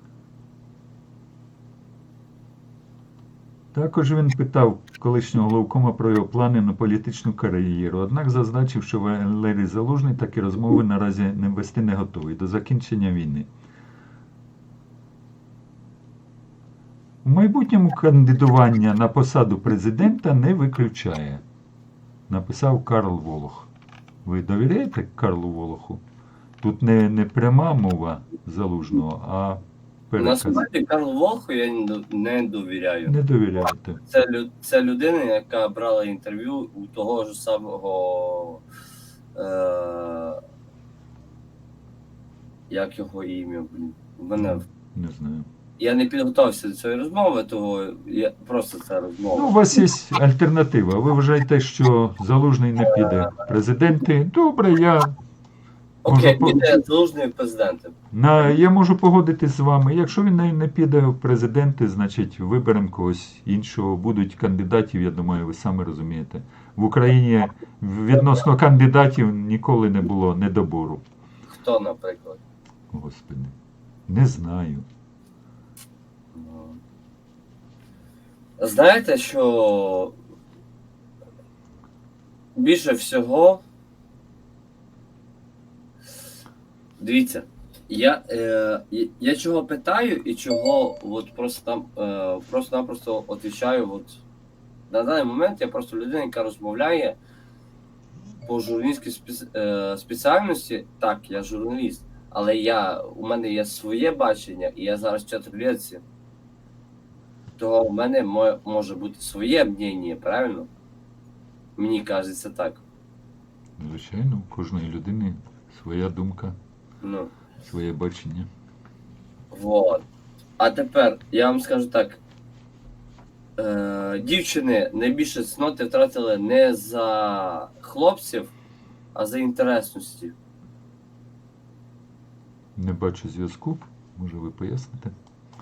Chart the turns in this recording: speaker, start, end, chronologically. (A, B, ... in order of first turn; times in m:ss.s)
0:03.7-0:13.5 A
0:17.2-0:21.4 A
0:22.3-0:23.7 A
0:24.2-0:26.0 A
0:26.6-0:30.6 A
0:30.2-0:33.1 B
0:33.0-0:34.0 A
0:34.0-0:38.6 B
0:39.3-0:40.4 B
0:42.7-0:44.6 B
0:44.4-0:45.5 A
0:45.8-0:49.6 B
0:49.3-0:55.2 A
0:56.0-0:57.9 B
0:56.0-0:56.7 A
0:58.1-1:11.0 A
1:11.5-1:12.4 B
1:12.9-1:13.5 A
1:14.1-1:14.8 A
1:16.3-1:16.8 B
1:18.6-1:20.2 B
1:22.5-1:23.6 B
1:27.0-1:34.2 B
1:34.9-1:37.2 B
1:38.4-1:46.0 B
1:47.6-1:50.7 B
1:51.8-1:52.8 B
1:53.8-1:56.6 A
1:57.0-1:57.3 B
1:57.7-1:58.5 A
1:59.5-2:00.0 B
2:00.6-2:02.2 B
2:03.6-2:08.5 B
2:09.1-2:10.3 B
2:12.8-2:15.1 A